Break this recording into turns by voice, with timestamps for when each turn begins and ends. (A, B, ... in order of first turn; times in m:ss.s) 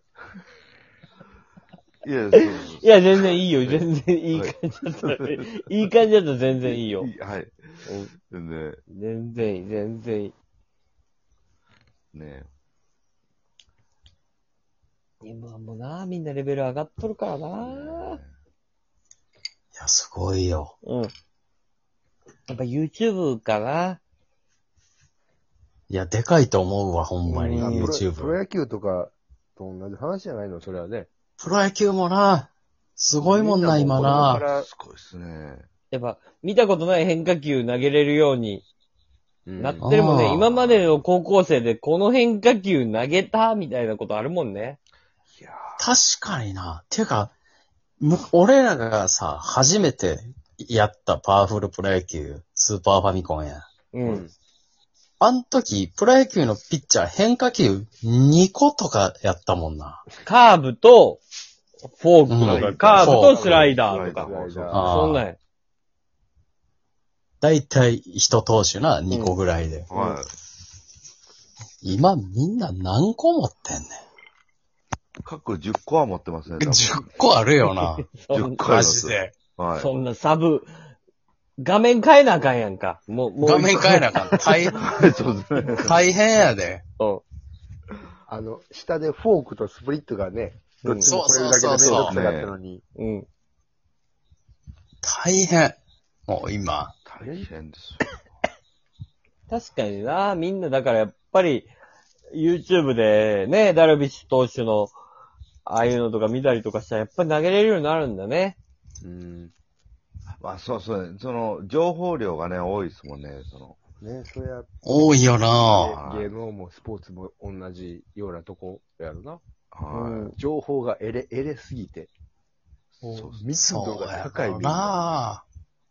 0:02.0-0:03.8 A
0:02.8-0:07.1 B
0:04.3-0:05.5 A
0:06.6-0:08.8 A
0:07.8-0:08.1 B
0:08.9-0:10.3 B
0:12.1-0:12.5 A
0:15.2-0:18.2 B
0:17.6-0:18.3 A
0:19.7-0:20.7 C
0:20.8-0:21.1 B
0:22.5-0:24.0 B
0:25.9-0:28.4 C
0:27.3-0:27.9 B
0:27.5-0:31.1 D
0:31.4-0:34.4 C
0:33.2-0:34.7 D
0:34.4-0:35.7 A
0:35.9-0:38.6 B
0:39.4-0:39.9 D
0:39.6-0:44.8 B
0:39.8-0:40.4 C
0:40.5-0:41.0 A
0:45.4-0:45.8 A
0:45.8-0:47.3 C
0:48.0-0:53.6 C
0:53.9-0:54.2 B
0:54.0-0:54.3 D
0:55.2-1:00.0 C
1:00.2-1:01.2 B
1:01.9-1:05.4 B
1:02.3-1:03.4 C
1:02.4-1:05.0 A
1:02.6-1:04.9 D
1:04.7-1:05.2 C
1:07.4-1:09.9 C
1:09.9-1:10.3 A
1:11.8-1:14.0 C
1:15.2-1:17.0 A
1:16.6-1:18.0 C
1:18.1-1:18.6 B
1:18.3-1:19.9 A
1:18.6-1:19.3 C
1:19.8-1:20.7 B
1:21.6-1:24.5 B
1:23.4-1:24.8 C
1:24.7-1:26.0 A
1:25.8-1:26.8 C
1:28.3-1:32.8 D
1:30.8-1:31.1 B
1:31.1-1:32.3 C
1:31.9-1:32.5 A
1:33.0-1:33.3 B
1:35.0-1:36.9 C
1:37.0-1:38.2 A
1:37.2-1:37.5 D
1:39.5-1:41.7 B
1:42.3-1:44.9 B
1:45.6-1:48.6 B
1:49.0-1:49.5 D
1:50.4-1:53.8 A
1:54.0-1:59.4 D
1:54.8-1:56.0 C
1:56.0-1:56.3 A
1:59.7-2:00.3 A
1:59.9-2:00.3 B
2:00.3-2:02.1 D
2:03.0-2:03.5 A
2:03.0-2:05.0 D
2:03.6-2:05.4 C